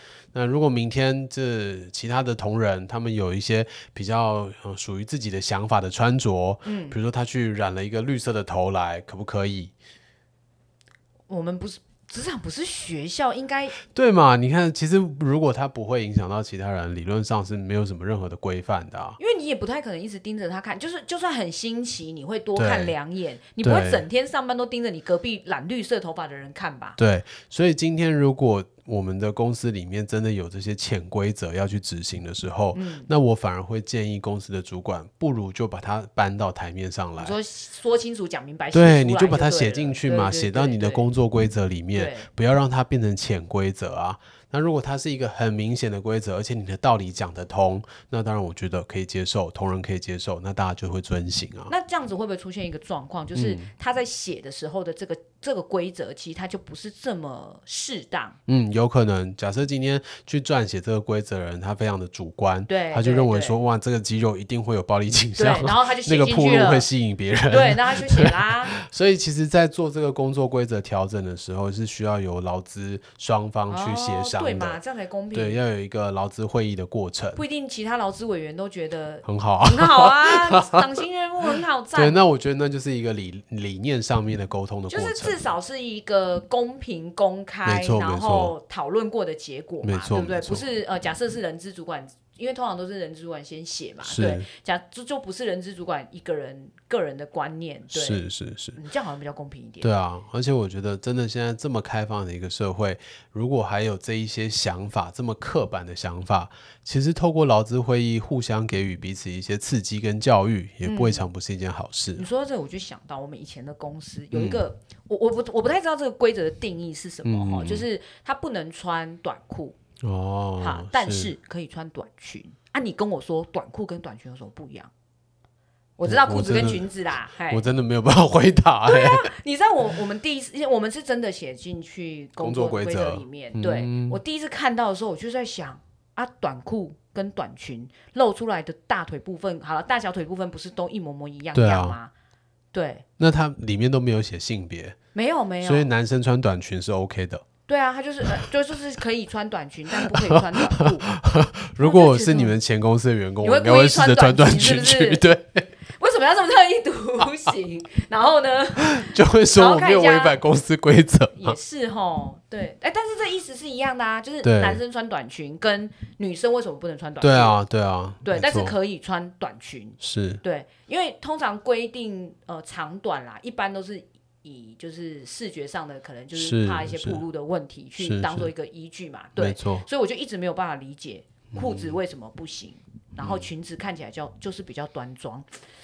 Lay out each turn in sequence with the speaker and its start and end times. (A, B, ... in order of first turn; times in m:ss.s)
0:00.3-0:09.7 A
0:06.6-0:07.0 B
0:11.3-0:13.8 B
0:13.8-0:19.2 A
0:19.2-0:27.0 B
0:22.6-0:22.9 A
0:23.6-0:24.0 A
0:27.0-0:37.4 A
0:32.7-0:33.1 B
0:37.2-0:41.1 B
0:38.7-0:51.7 A
0:41.9-0:42.3 B
0:51.7-0:58.4 B
0:53.3-0:53.7 A
0:58.5-1:14.8 A
1:02.7-1:03.6 B
1:05.4-1:06.9 B
1:07.5-1:08.8 B
1:13.7-1:15.6 B
1:15.3-1:17.4 A
1:17.3-1:22.2 B
1:19.2-1:20.8 A
1:21.9-1:25.4 A
1:24.9-1:39.9 B
1:27.6-1:28.5 A
1:29.8-1:30.7 A
1:34.0-1:34.4 A
1:37.9-1:38.8 A
1:39.8-1:52.3 A
1:50.8-1:51.2 B
1:52.1-1:59.8 B
1:54.3-1:54.6 A
1:57.2-1:57.9 A
2:00.0-2:01.3 A
2:00.6-2:04.9 B
2:06.0-2:07.7 B
2:06.0-2:06.9 A
2:07.5-2:09.3 A
2:08.8-2:22.1 B
2:12.4-2:14.2 A
2:21.5-2:22.0 A
2:22.7-2:23.0 B
2:23.2-2:25.0 A
2:25.1-2:25.9 B
2:25.6-2:27.4 A
2:27.7-2:31.1 B
2:30.0-2:35.7 A
2:31.8-2:32.6 B
2:33.4-2:35.2 B
2:35.9-2:40.4 B
2:38.8-2:41.6 A
2:41.3-2:47.6 B
2:44.4-2:44.8 A
2:47.2-2:48.8 A
2:48.2-3:05.5 B
2:50.0-2:50.4 A
2:56.3-2:57.2 A
2:58.0-2:58.5 A
2:59.4-2:59.9 A
3:01.5-3:02.0 A
3:03.2-3:03.5 A